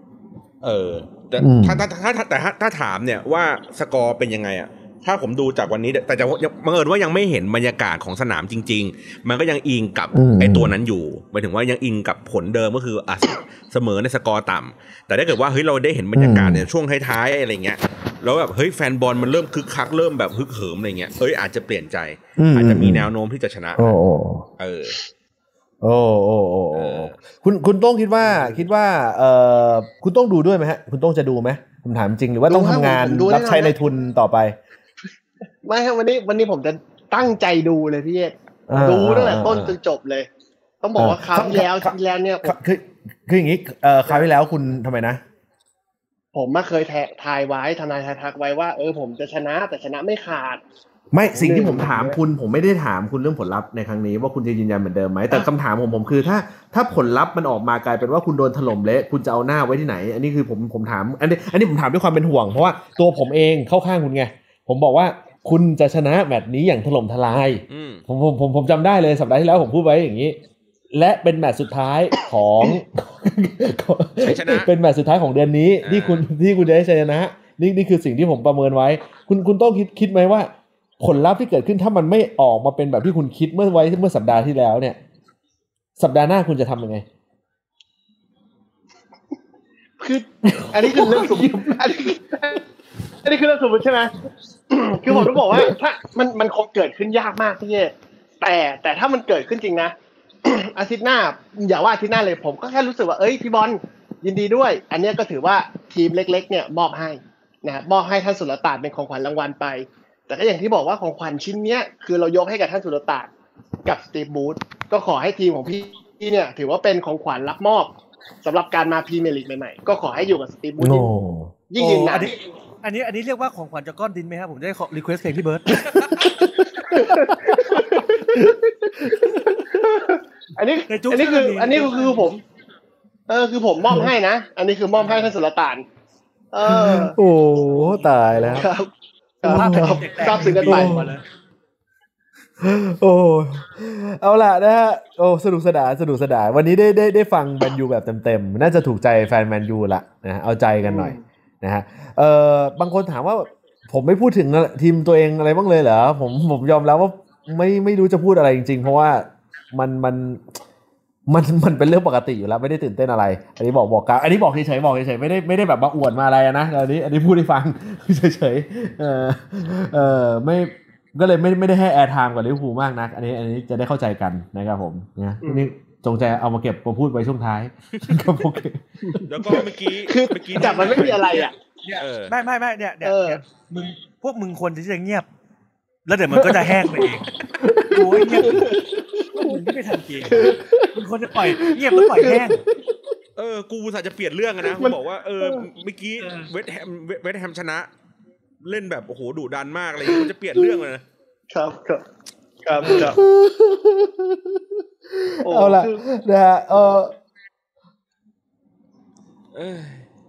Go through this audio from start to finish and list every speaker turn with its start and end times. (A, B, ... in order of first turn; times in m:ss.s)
0:00.6-0:24.0 A
0:01.4-0:01.9 B
0:10.1-0:10.7 B
0:16.1-0:16.7 B
0:22.4-0:23.1 B
0:23.8-0:24.5 B
0:24.6-0:25.0 A
0:25.8-0:34.6 B
0:26.7-0:27.2 A
0:32.5-0:33.8 C
0:35.6-0:40.3 C
0:38.7-0:39.8 B
0:40.8-0:42.5 C
0:41.0-0:45.2 B
0:46.3-0:50.6 C
0:51.1-1:10.4 B
0:51.3-0:52.2 C
1:07.7-1:08.0 A
1:10.9-1:25.0 B
1:14.2-1:14.7 A
1:15.8-1:16.3 A
1:26.0-1:27.0 B
1:30.0-1:32.6 C
1:30.4-1:32.0 B
1:33.2-1:34.1 C
1:34.7-1:53.3 C
1:35.1-1:35.7 B
1:53.8-2:01.1 C
2:00.8-2:01.6 B
2:01.7-2:02.3 C
2:01.8-2:05.8 D
2:05.8-2:06.3 A
2:06.2-2:09.6 B
2:06.8-2:08.9 C
2:09.5-2:12.4 C
2:10.9-2:12.4 D
2:13.3-2:15.8 C
2:15.0-2:15.3 D
2:16.5-2:17.2 C
2:16.6-2:18.7 B
2:17.7-2:18.0 D
2:18.4-2:21.1 C
2:19.4-2:21.2 D
2:19.4-2:21.1 B
2:22.6-2:40.6 B
2:30.8-2:31.2 C
2:41.3-2:59.0 B
2:55.4-2:55.7 C
2:59.0-3:01.5 C
2:59.3-3:02.3 A
3:00.6-3:05.2 D
3:03.0-3:03.4 C
3:06.0-3:07.3 D
3:06.3-3:07.0 B
3:07.5-3:08.8 B
3:07.9-3:08.6 D
3:08.4-3:08.8 C
3:09.3-3:12.6 D
3:10.3-3:10.9 B
3:11.5-3:13.0 B
3:13.4-3:17.9 A
3:14.6-3:15.7 C
3:16.2-3:16.5 D
3:18.6-3:21.0 A
3:21.5-3:22.0 C
3:22.6-3:23.2 C
3:22.8-3:23.1 D
3:22.9-3:27.1 B
3:25.4-3:26.0 C
3:29.5-3:30.0 A